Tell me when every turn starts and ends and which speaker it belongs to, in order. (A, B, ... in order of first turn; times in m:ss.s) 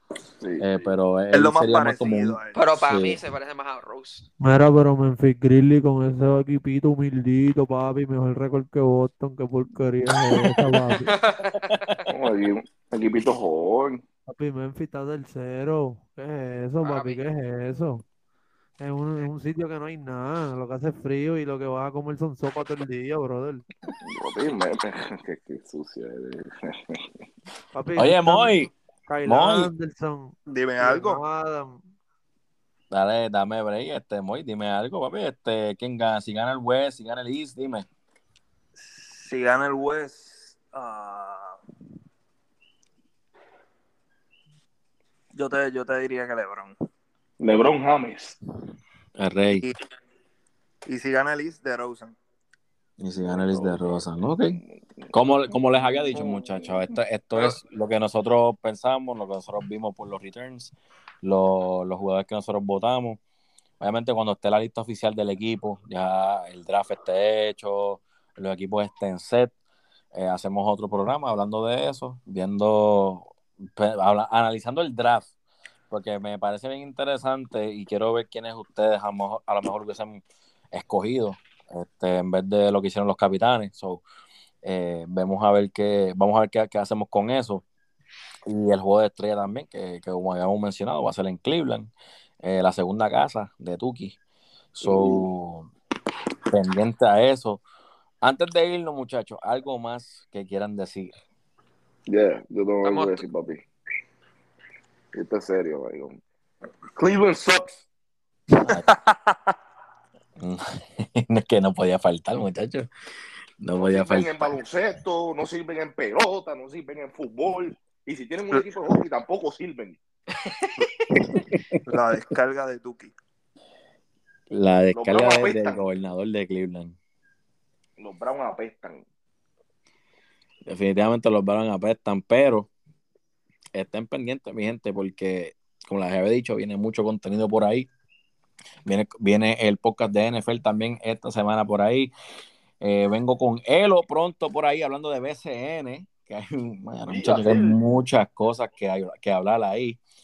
0:00.4-0:00.9 A
0:00.6-0:03.2 B
0:01.3-0:02.7 C
0:02.5-0:04.2 D
0:04.4-0:11.1 E
0:11.0-0:11.9 D
0:11.6-0:12.0 B
0:12.1-0:14.0 A
0:14.3-0:18.0 E
0:16.8-0:17.2 D
0:18.8-0:23.6 E
0:23.9-0:27.1 A
0:27.7-0:31.8 E
0:28.0-0:28.7 B
0:29.2-0:29.7 B
0:30.5-0:31.2 C
0:32.9-0:37.8 B
0:38.8-0:41.6 C
0:45.3-0:46.8 C
0:47.4-0:48.4 A
0:49.2-0:49.7 B
0:50.8-0:52.2 C
0:53.0-0:54.6 B
0:53.2-0:57.0 A
0:55.1-1:03.2 B
1:03.8-1:09.5 B
1:10.1-1:15.3 B
1:15.9-1:24.0 B
1:24.6-1:27.6 B
1:28.4-1:31.9 B
1:32.4-1:34.2 B
1:34.7-1:35.7 B
1:34.8-1:35.2 A
1:36.5-1:37.6 B
1:38.2-1:41.1 B
1:42.1-1:43.6 A
1:42.8-1:43.2 D
1:45.1-1:46.2 A
1:46.9-1:47.8 A
1:48.6-1:48.9 B
1:48.7-1:49.3 C
1:50.4-1:52.9 B
1:53.6-1:54.6 B
1:53.8-2:00.0 A
2:00.4-2:01.0 D
2:01.9-2:03.1 C
2:04.5-2:07.0 B
2:04.9-2:05.8 A
2:08.0-2:09.0 A
2:10.6-2:12.7 B
2:13.7-2:17.9 B
2:18.8-2:22.1 B
2:22.8-2:30.0 B
2:27.1-2:27.8 A